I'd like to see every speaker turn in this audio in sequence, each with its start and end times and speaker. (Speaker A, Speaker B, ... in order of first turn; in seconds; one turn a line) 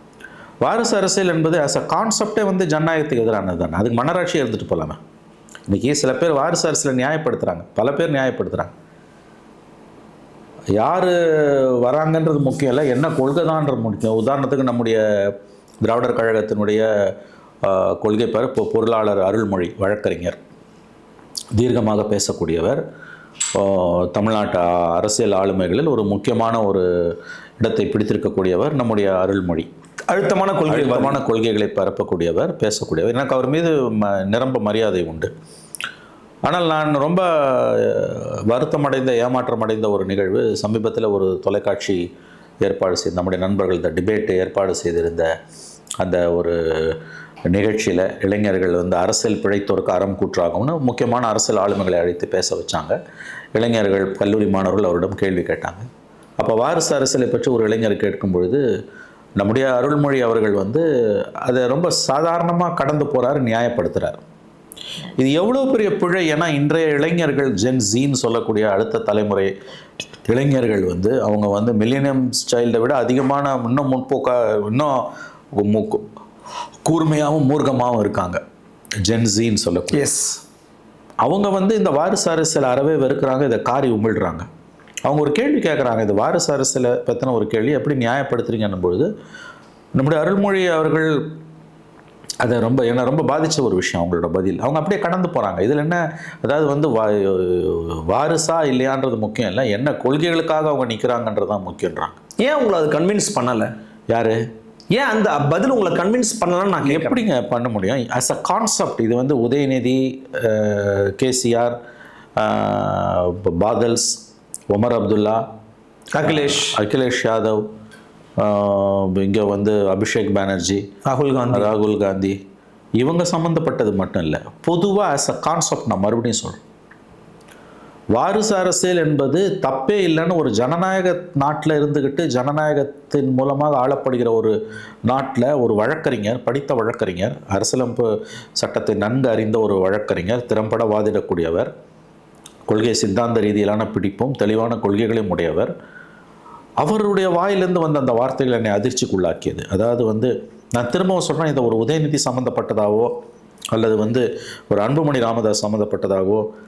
Speaker A: 0.6-5.0
Speaker A: 5.7-8.7
Speaker A: 10.8-16.9
Speaker A: 17.6-20.4
Speaker A: 21.6-22.8
Speaker A: 23.6-29.7
Speaker B: 30.1-31.2
Speaker A: 30.7-35.3
Speaker A: 36.5-42.0
Speaker A: 42.6-45.3
Speaker A: 46.0-47.0
Speaker A: 47.5-53.0
Speaker A: 53.6-55.9
Speaker A: 56.4-58.6
Speaker A: 59.4-60.9
Speaker A: 61.4-64.2
Speaker A: 65.2-69.5
Speaker A: 70.3-76.1
Speaker A: 76.9-78.4
Speaker A: 79.0-80.0
Speaker B: 79.9-80.4
Speaker A: 81.2-84.5
Speaker A: 85.1-89.1
Speaker A: 90.0-91.2
Speaker A: 92.4-102.1
Speaker B: 102.4-103.7
Speaker A: 104.1-104.4
Speaker B: 104.9-107.2
Speaker A: 106.8-111.8
Speaker A: 112.4-114.2
Speaker A: 114.7-115.4
Speaker B: 116.1-116.8
Speaker A: 116.2-117.6
Speaker A: 118.4-120.8
Speaker B: 121.0-121.7
Speaker A: 121.5-122.4
Speaker A: 123.0-126.6
Speaker A: 128.2-134.6
Speaker A: 135.1-141.7
Speaker A: 142.7-145.7
Speaker A: 146.8-153.1
Speaker A: 153.7-156.5